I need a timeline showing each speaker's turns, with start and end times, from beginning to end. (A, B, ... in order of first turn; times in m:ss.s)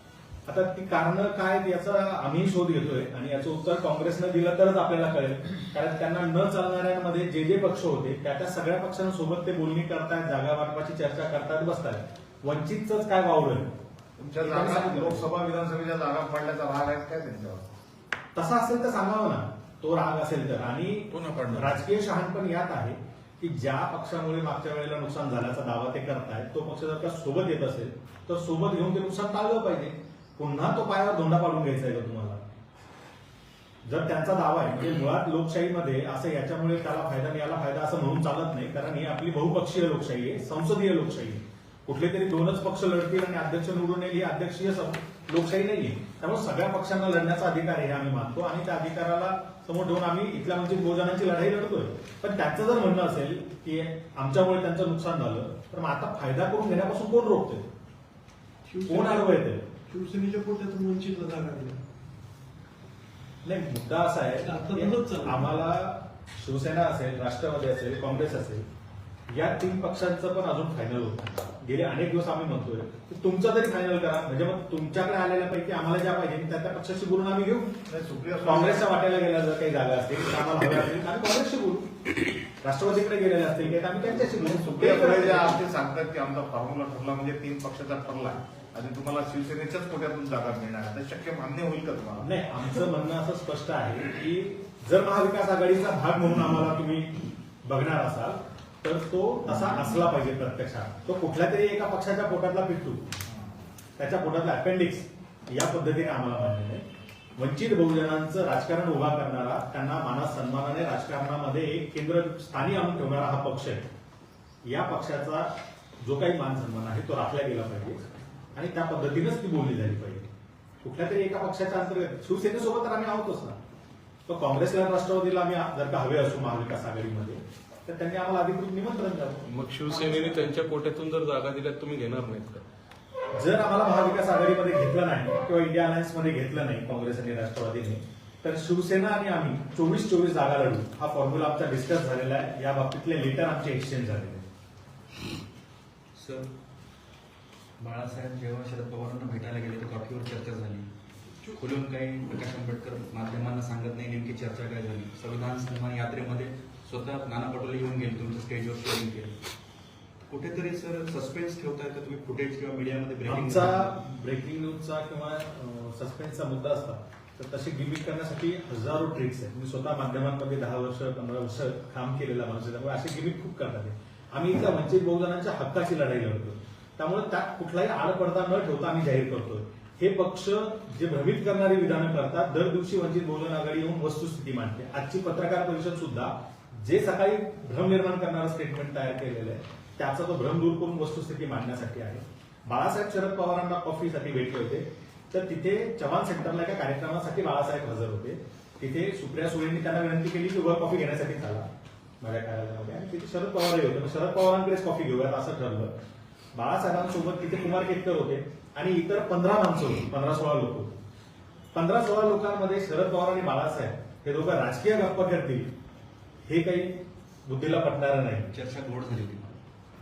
0:00.5-0:13.7 A
0:14.2-0:17.7 B
0:14.4-0:15.2 A
0:18.3-0:32.4 A
0:21.2-0:21.7 B
0:33.8-0:57.7 A
0:58.6-0:59.3 C
0:58.9-0:59.6 A
0:59.9-1:01.8 C
1:03.4-1:08.6 A
1:04.4-1:05.4 C
1:09.3-1:17.7 A
1:17.9-1:18.9 B
1:18.4-1:22.1 A
1:22.6-1:25.6 A
1:24.2-1:32.2 B
1:32.2-1:43.0 A
1:44.0-1:46.8 A
1:47.4-1:53.9 A
1:54.6-1:58.0 A
1:58.5-2:00.2 A
2:00.8-2:03.6 A
2:04.3-2:09.4 A
2:09.5-2:12.6 D
2:13.4-2:24.4 A
2:26.1-2:26.5 E
2:27.8-2:30.9 E
2:31.6-2:39.4 E
2:40.3-2:43.9 E
2:43.2-3:21.7 A
3:22.2-3:25.9 A
3:26.5-3:31.0 A
3:31.7-3:35.7 A
3:36.4-3:38.5 A
3:38.5-3:39.6 E